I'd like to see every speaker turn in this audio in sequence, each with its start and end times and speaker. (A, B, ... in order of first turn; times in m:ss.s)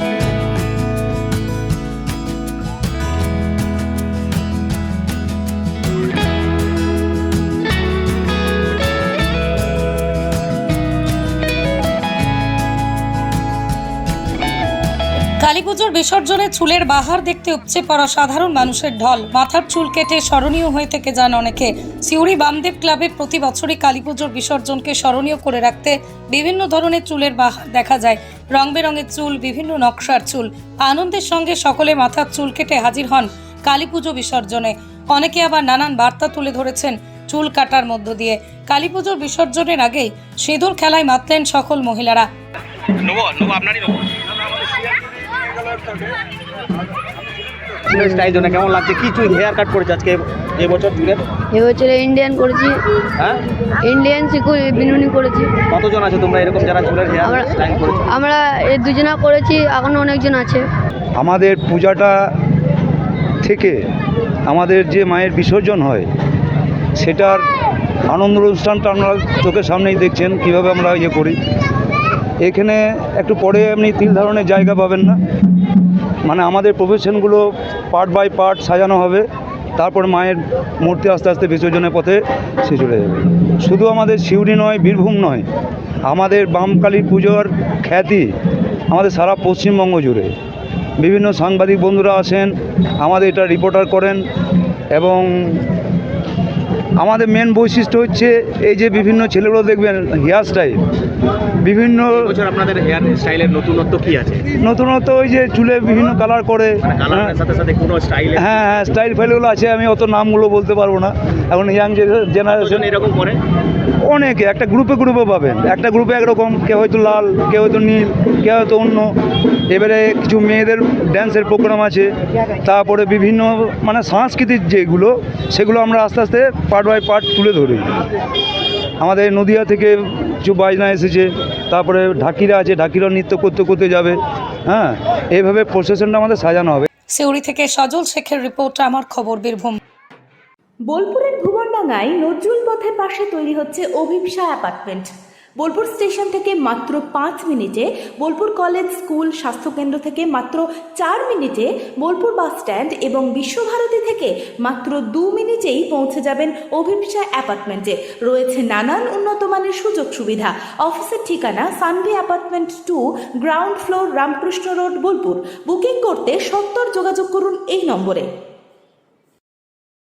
0:15.4-0:42.3 A
0:43.0-0:46.1 B
0:47.8-0:51.2 B
0:51.5-0:52.8 C
0:53.8-0:55.5 C
0:55.7-0:58.0 B
0:57.2-0:57.5 C
0:58.1-1:00.6 C
1:01.2-1:02.1 D
1:03.4-1:03.8 D
1:04.5-1:06.1 D
1:07.0-1:07.4 D
1:08.1-1:11.4 D
1:12.4-1:15.2 D
1:16.3-1:19.2 D
1:19.8-1:25.4 D
1:26.1-1:28.3 D
1:28.9-1:30.3 D
1:31.0-1:34.2 D
1:34.9-1:35.7 D
1:37.0-1:40.8 D
1:41.6-1:42.4 D
1:42.1-1:44.5 B
1:44.6-1:47.4 D
1:46.9-1:48.6 B
1:48.3-1:53.0 D
1:52.6-1:53.4 B
1:54.1-1:59.1 D
1:59.7-2:02.1 D
2:02.6-2:07.9 D
2:09.0-2:16.9 D
2:17.1-2:19.8 A
2:20.9-2:48.3 E